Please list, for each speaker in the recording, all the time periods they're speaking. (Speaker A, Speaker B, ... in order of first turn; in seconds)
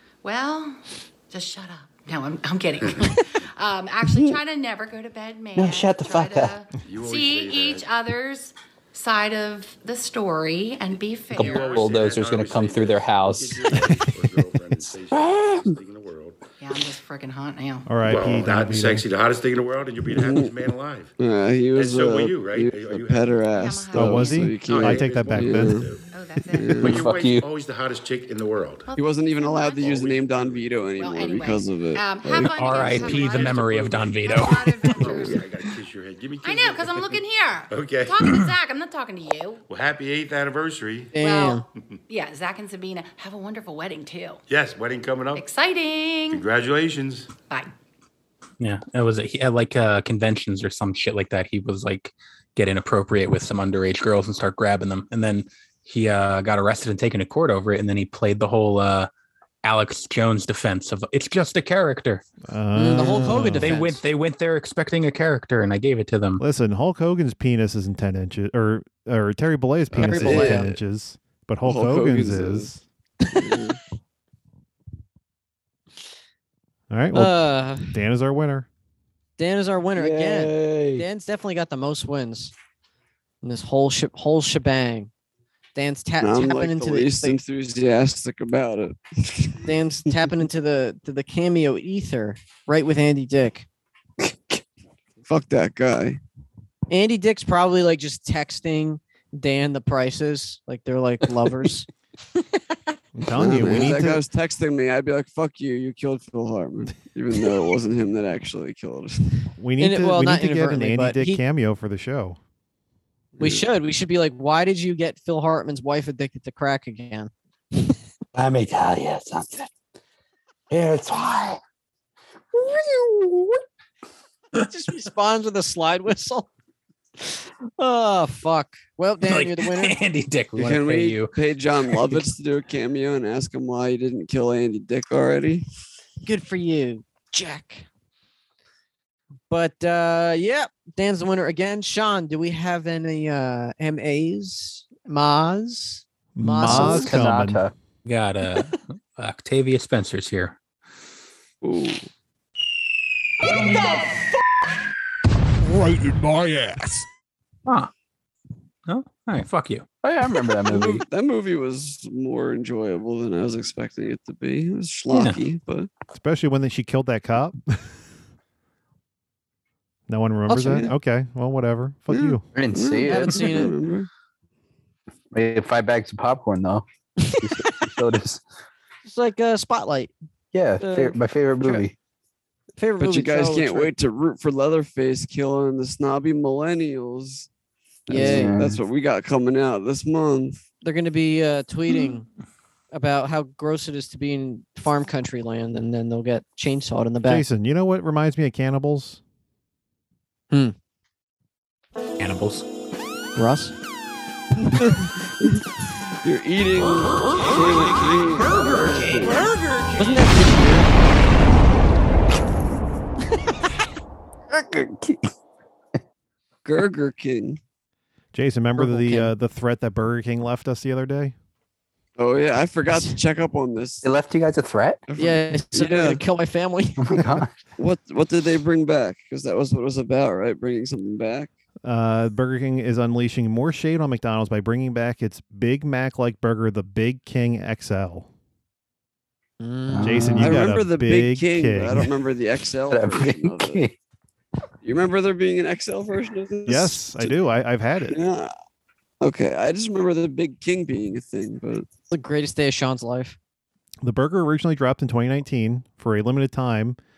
Speaker A: 0.2-11.9, 16.6-17.9, 23.6-24.4, 26.1-26.9, 28.9-30.1, 30.9-35.4, 36.4-39.6, 41.2-44.4, 45.3-46.4
Speaker B: 5.5-6.6, 11.3-14.0, 15.1-15.8, 26.8-27.5, 80.0-81.0, 118.3-119.7, 120.7-121.6, 122.5-123.6, 146.6-147.7, 160.0-161.0, 172.5-173.5, 175.3-176.8, 177.4-178.4, 180.5-181.9, 188.1-188.8, 214.5-215.3, 224.0-225.0, 227.0-227.5, 239.9-240.6, 242.9-243.9
Speaker C: 6.8-7.9, 11.3-16.4, 18.0-21.1, 21.7-23.5, 24.5-26.1, 26.8-28.9, 29.8-30.8, 33.3-33.7, 35.0-38.3, 39.7-41.1, 44.5-45.5, 46.3-47.3
Speaker D: 17.9-19.0, 23.9-25.9, 62.5-63.8, 66.4-72.8, 76.9-78.7, 103.2-104.2, 109.6-112.4, 146.3-147.6, 166.1-167.6, 170.1-172.4, 197.2-199.2, 218.3-221.3, 231.8-238.3, 240.0-242.1, 246.6-248.2, 254.0-257.0
Speaker E: 20.1-20.5, 21.2-25.9, 26.5-27.1, 29.0-33.6, 69.9-70.8, 71.6-72.7, 73.4-73.8, 86.2-90.3, 95.2-96.2, 103.3-109.4, 113.4-113.7, 130.5-135.6, 151.6-152.1, 160.7-165.9, 170.6-170.9, 172.1-174.1, 183.0-187.5, 188.1-190.6, 204.6-205.6, 206.2-209.5, 216.6-217.6, 222.2-224.1, 225.1-226.2, 227.8-231.5, 240.4-243.9, 244.8-247.3, 248.1-248.5, 249.2-251.9
Speaker F: 32.5-35.0, 48.6-59.1, 59.6-62.2, 63.5-66.4, 129.2-131.3, 148.0-150.6, 158.9-159.8, 165.1-165.4, 202.2-202.7
Speaker G: 41.1-41.6, 62.7-64.0, 69.9-70.7, 77.1-78.0, 79.4-82.5, 83.4-85.1, 85.7-87.4, 89.7-93.7, 96.9-101.9, 109.8-111.4, 113.4-117.3, 124.6-126.5, 127.2-130.0, 136.2-137.8, 139.5-147.1, 170.5-170.9, 173.1-173.8, 177.2-177.5, 179.0-180.1, 180.8-181.8, 182.8-183.9, 188.1-188.5, 190.8-192.2, 192.9-197.4, 203.3-203.7, 210.0-210.8, 218.8-219.3, 225.2-227.2, 239.6-240.4, 252.1-253.4